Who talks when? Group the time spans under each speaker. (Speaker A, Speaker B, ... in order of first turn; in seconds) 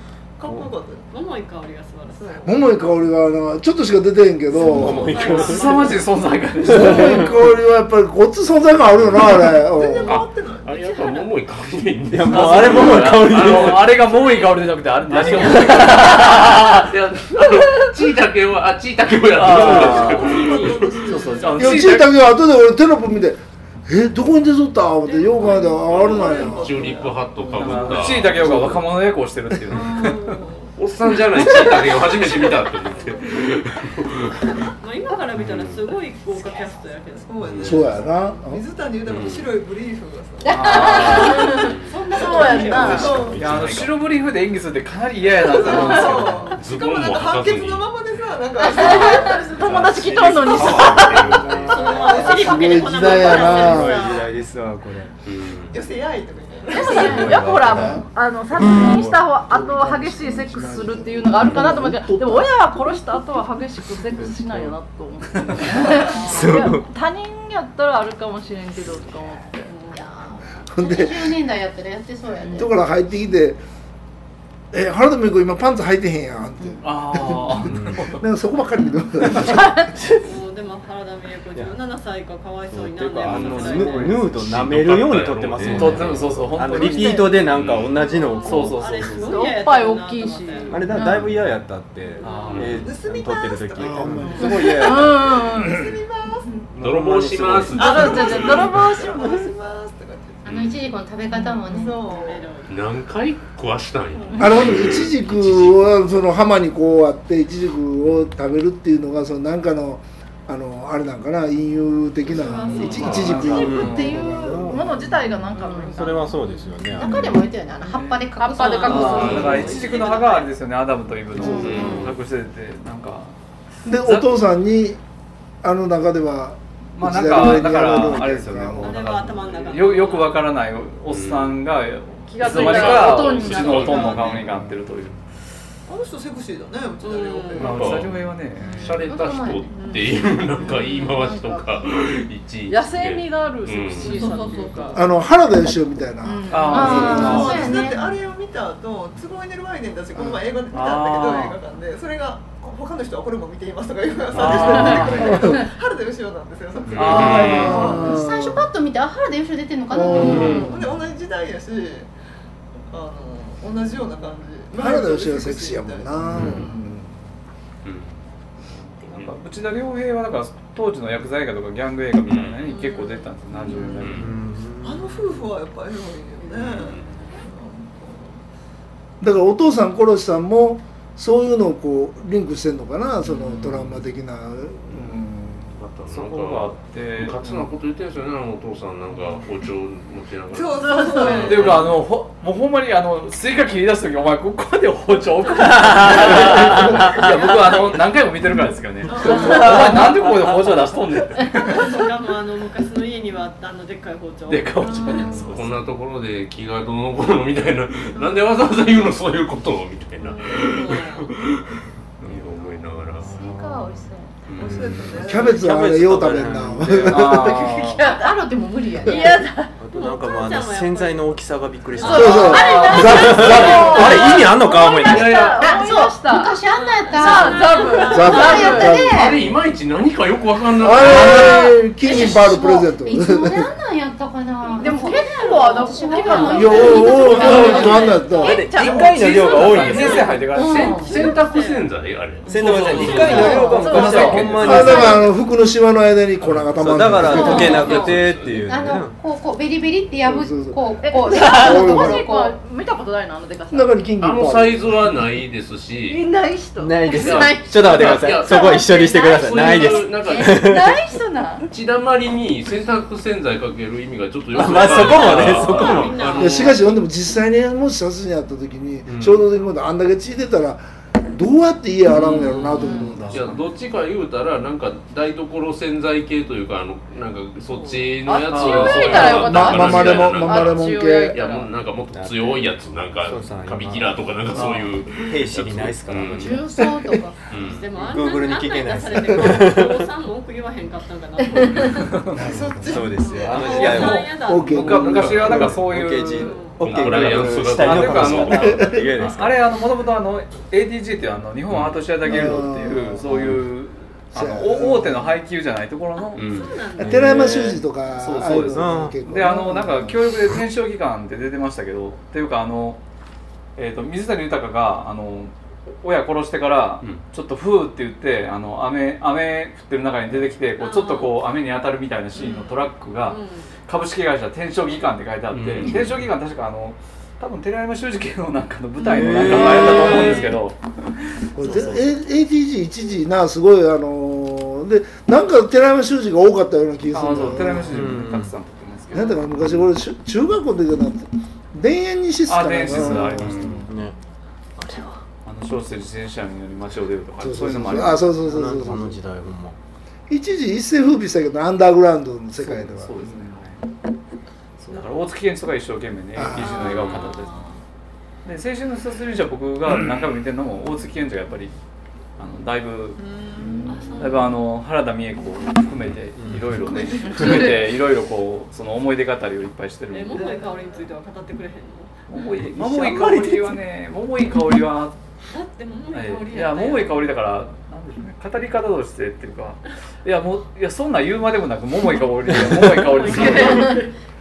Speaker A: 0.4-1.1, 2.1-2.7, 9.5-11.0, 19.5-22.0, 25.1-28.2, 29.7-30.8, 31.4-33.3, 36.3-41.5, 42.1-43.5, 45.2-49.7, 50.5-50.9, 51.7-53.8, 55.7-57.3, 92.7-96.7, 97.8-100.5, 101.3-102.6, 112.3-112.8, 135.9-138.0, 139.7-140.7, 147.1-158.1, 160.3-162.1, 162.9-166.8, 173.6-174.2, 174.8-178.4, 190.5-191.9, 199.1-200.1, 201.7-202.0, 204.8-205.5, 208.2-208.4, 214.6-215.8, 292.4-294.0, 322.4-322.7, 356.9-357.2, 363.2-364.3, 366.8-367.8, 370.3-371.1
Speaker B: 1.1-2.5, 4.7-6.1, 9.9-11.3, 14.2-14.5, 25.1-26.6, 30.0-30.3, 31.4-31.7, 33.0-33.4, 34.8-37.4, 40.9-43.3, 45.7-46.0, 51.6-54.3, 65.8-66.7, 69.7-70.0, 80.2-84.3, 87.9-91.1, 92.2-92.7, 94.2-94.5, 101.7-102.8, 112.3-113.7, 115.5-116.7, 118.7-120.5, 128.8-130.4, 137.0-137.7, 140.7-141.2, 144.0-145.0, 172.6-173.8, 195.3-197.9, 199.3-199.8, 201.5-205.5, 210.2-211.3, 219.1-223.9, 226.7-229.0, 234.6-241.9, 265.6-266.8, 277.7-278.1, 287.6-292.1, 293.1-295.1, 296.4-296.9, 306.4-307.4, 320.8-321.4, 323.2-323.7, 356.6-357.8, 363.9-364.6, 370.1-372.1, 375.5-377.3, 383.1-384.1
Speaker C: 2.4-5.6, 6.6-10.2, 21.6-28.8, 37.6-38.6, 50.7-54.1, 57.4-58.0, 58.6-63.2, 70.7-71.4, 72.5-73.6, 74.7-79.9, 93.8-94.6, 104.4-115.2, 121.4-121.9, 123.8-125.0, 125.6-129.2, 134.3-134.8, 144.9-147.5, 155.1-155.7, 157.0-158.7, 159.9-160.8, 164.7-167.1, 179.2-185.7, 215.2-217.8, 222.0-224.3, 227.9-229.6, 230.8-233.7, 236.5-238.7, 244.6-247.9, 250.2-252.2, 253.7-254.9, 266.4-273.4, 279.1-281.4, 286.8-287.2, 292.3-293.1, 293.6-295.8, 298.5-299.0, 302.2-303.6, 304.3-305.4, 307.0-310.3, 331.5-338.2, 339.1-343.9, 347.4-349.2, 350.3-353.4, 356.3-356.9
Speaker D: 4.5-5.9, 6.6-7.3, 12.1-14.0, 15.1-16.2, 42.7-43.8, 49.6-51.7, 53.3-55.1, 56.9-59.2, 64.2-64.7, 66.2-66.9, 77.7-78.1, 81.5-81.8, 82.7-89.1, 90.7-95.5, 96.7-98.1, 113.0-115.1, 115.8-117.4, 160.2-160.6, 166.3-166.6, 174.1-175.2, 195.7-197.3, 212.2-217.5, 219.8-225.4, 237.3-237.8, 238.4-240.3, 242.5-245.3, 246.5-249.2, 256.8-260.9, 264.5-266.2, 282.1-282.7, 283.2-286.7, 287.8-290.1, 292.5-294.4, 295.1-299.6, 303.2-303.6, 307.0-307.9, 308.7-309.2, 329.0-330.5, 337.8-338.5, 342.9-344.1, 344.8-345.2, 348.3-349.8, 366.4-366.8, 372.6-373.8, 382.5-383.0
Speaker E: 5.3-7.2, 12.3-16.6, 19.3-20.4, 21.1-22.1, 27.5-30.4, 40.5-41.4, 43.4-46.5, 76.8-78.2, 85.7-87.4, 88.4-89.4, 92.2-92.8, 112.6-114.3, 117.8-118.2, 118.8-123.3, 124.0-124.3, 126.9-135.2, 137.6-138.8, 146.5-147.6, 150.7-151.6, 154.3-155.4, 156.9-157.9, 169.0-174.3, 186.1-187.7, 191.2-201.9, 204.9-205.8, 217.1-218.1, 231.1-231.5, 238.8-241.1, 242.6-244.9, 272.1-273.6, 278.5-279.2, 292.1-292.4, 293.5-306.5, 308.1-313.0, 313.8-330.8, 331.6-332.0, 337.1-339.4, 342.5-343.9, 345.4-348.3, 352.6-353.8, 354.8-357.5, 358.4-361.7, 362.4-370.5, 372.3-375.2, 376.1-384.0
Speaker F: 9.0-9.4, 10.6-14.3, 15.1-21.1, 25.9-28.7, 30.8-34.7, 35.3-35.9, 37.4-37.9, 39.1-39.5, 40.8-42.0, 42.7-44.0, 46.0-47.9, 49.6-52.0, 55.2-55.8, 83.2-86.5, 87.5-88.0, 92.5-92.8, 96.8-98.9, 100.5-100.8, 102.7-106.0, 113.0-113.3, 119.1-119.7, 121.5-122.2, 131.1-131.6, 132.4-134.4, 137.6-138.2, 138.8-144.4, 154.3-154.9, 156.9-158.0, 167.8-168.2, 169.1-169.3, 172.2-172.6, 174.0-174.3, 176.5-177.1, 183.5-184.0, 185.7-191.9, 204.5-213.3, 214.5-215.2, 223.7-225.7, 229.1-231.6, 238.8-243.8, 247.4-248.7, 254.2-256.2, 257.1-260.8, 261.7-266.9, 269.1-269.5, 272.1-286.6, 287.5-287.9, 294.7-295.7, 296.8-299.0, 301.7-301.9, 306.4-306.8, 325.5-326.2, 356.8-357.3, 359.9-360.3
Speaker G: 40.5-43.1, 48.6-51.5, 56.7-69.7, 79.4-80.0, 86.7-87.4, 89.2-91.3, 94.4-95.9, 97.7-99.5, 113.7-116.3, 118.3-119.8, 121.4-122.1, 132.3-134.4, 138.7-138.9, 140.6-141.8, 142.7-145.1, 146.2-147.6, 154.6-155.1, 190.8-191.5, 217.9-219.8, 222.0-229.3, 234.8-240.1, 242.9-245.2, 247.2-248.2, 251.0-254.0, 256.1-261.7, 272.8-273.1, 278.2-281.7, 367.2-367.9
Speaker H: 69.9-72.7, 100.4-102.0, 116.9-119.7, 139.0-139.8, 146.7-148.1, 157.6-160.8, 213.2-214.3, 217.7-219.4, 225.3-229.4, 231.0-238.3, 240.5-241.4, 243.3-243.8, 244.6-245.3, 247.2-252.6, 259.1-260.5, 266.1-266.5, 286.3-287.4, 291.4-292.1